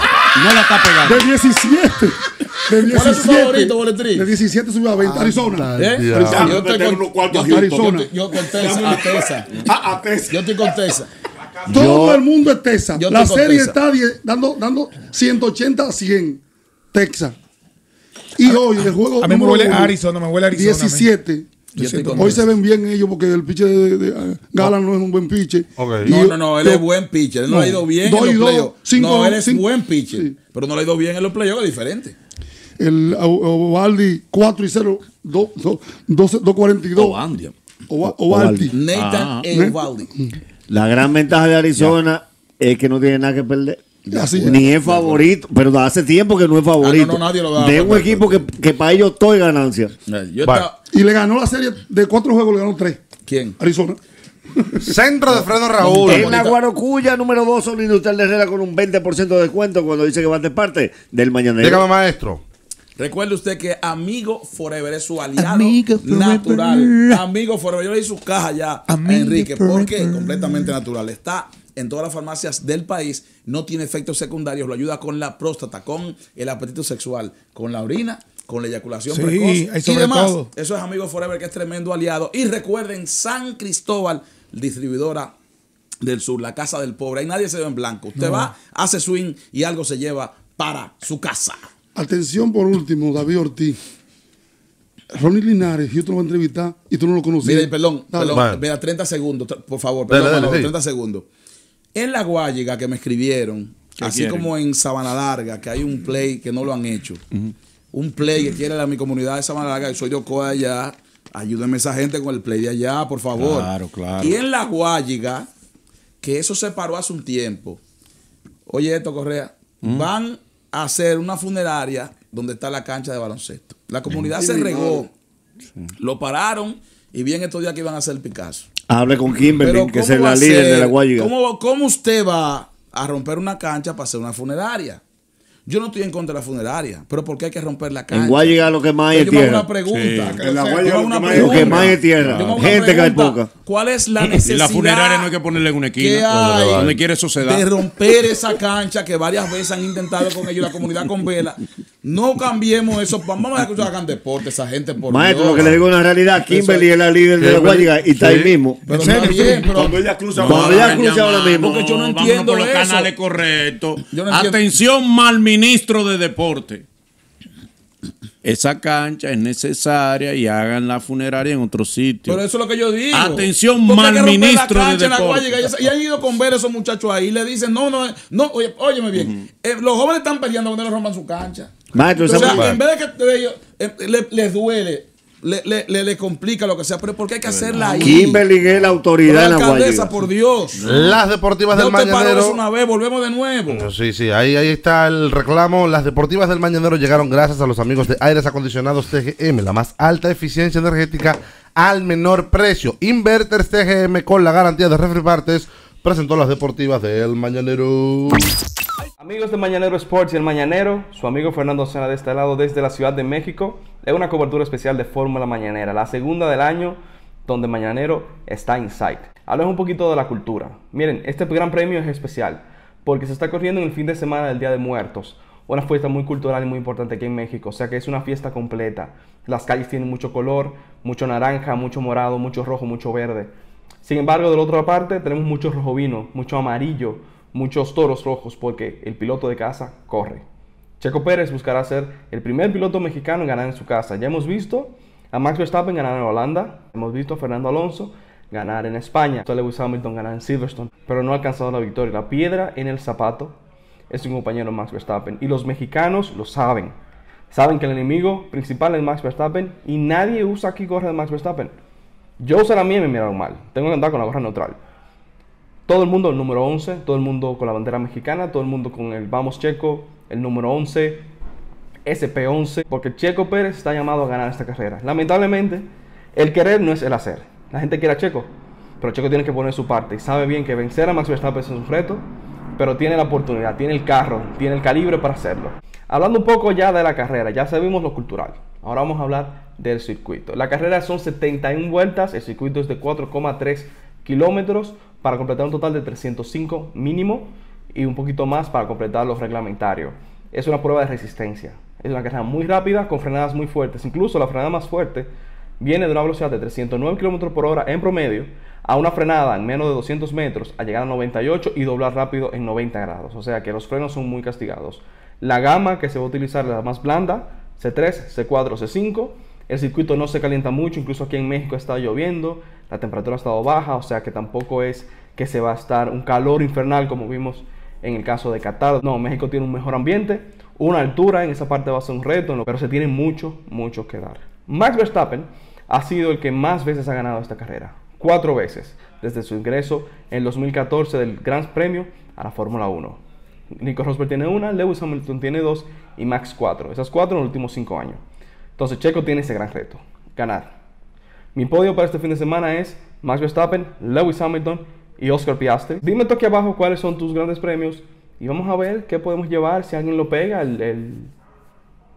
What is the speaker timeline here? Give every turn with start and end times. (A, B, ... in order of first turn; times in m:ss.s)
0:00.3-0:01.3 A
0:01.0-0:06.6 B
0:02.9-0:04.3 C
0:05.2-0:06.6 D
0:05.8-0:09.6 C
0:06.3-0:07.8 E
0:07.3-0:08.1 B
0:08.5-0:10.7 E
0:10.3-0:11.1 C
0:11.7-0:17.4 B
0:11.7-0:12.2 F
0:12.9-0:13.8 C
0:18.4-0:20.0 B
0:19.2-0:21.1 G
0:20.5-0:26.8 B
0:21.7-0:22.5 G
0:21.8-0:22.5 C
0:25.8-0:26.1 D
0:26.0-0:32.2 C
0:27.5-0:30.3 B
0:32.8-0:37.2 B
0:37.0-0:37.5 A
0:37.9-0:38.7 B
0:38.3-0:38.7 F
0:38.7-0:40.1 C
0:38.9-0:39.4 A
0:39.5-0:40.3 B
0:40.7-0:49.9 F
0:44.0-0:45.3 C
0:44.1-0:44.6 B
0:46.8-0:48.5 C
0:50.1-0:50.8 C
0:50.4-0:50.7 D
0:50.9-0:53.0 B
0:53.2-0:53.6 C
0:53.6-0:54.0 B
0:54.8-0:56.5 D
0:55.8-0:56.6 C
0:56.0-1:01.9 F
1:01.6-1:02.4 D
1:03.0-1:25.3 C
1:05.4-1:07.2 G
1:08.9-1:10.7 G
1:19.1-1:20.5 G
1:26.0-1:31.7 C
1:28.2-1:28.5 G
1:32.0-1:33.8 B
1:35.1-1:38.4 B
1:37.4-1:41.2 C
1:38.3-1:38.6 D
1:40.1-1:40.7 D
1:41.9-1:47.2 C
1:44.0-1:44.5 A
1:47.9-1:55.5 C
1:53.3-1:54.4 A
1:56.2-1:57.8 C
1:58.7-2:05.1 C
1:59.8-2:00.1 A
2:06.0-2:08.7 C
2:08.9-2:11.3 F
2:09.6-2:15.0 C
2:15.6-2:25.3 C
2:18.1-2:19.7 F
2:19.8-2:20.7 A
2:20.4-2:21.9 E
2:21.3-2:23.5 F
2:24.2-2:27.6 A
2:26.0-2:35.8 C
2:26.3-2:26.9 D
2:35.0-2:38.8 F
2:36.4-2:36.9 C
2:37.4-2:38.6 D
2:38.9-2:41.0 C
2:38.9-2:39.8 G
2:39.7-2:40.8 E
2:40.3-2:46.8 A
2:40.4-2:41.8 F
2:41.5-2:43.1 C
2:44.1-2:44.6 C
2:48.4-2:52.4 A
2:52.2-3:08.4 C
2:53.1-2:55.7 A
2:59.1-2:59.4 A
3:01.9-3:02.7 F
3:02.3-3:02.8 D
3:07.4-3:08.9 A
3:08.0-3:10.1 F
3:09.2-3:10.9 C
3:10.8-3:12.6 D
3:11.7-3:13.8 C
3:13.7-3:28.5 D
3:29.2-3:53.5 H
3:54.0-4:00.4 H
4:01.0-4:13.6 H
4:14.1-4:16.9 H
4:17.5-4:21.7 H
4:22.4-4:24.8 H
4:25.9-4:31.3 H
4:32.1-4:38.5 H
4:39.0-4:42.2 H
4:42.8-5:05.3 H
5:05.8-5:43.2 H
5:43.8-5:48.2 H
5:48.8-5:50.7 H
5:51.5-6:01.3 H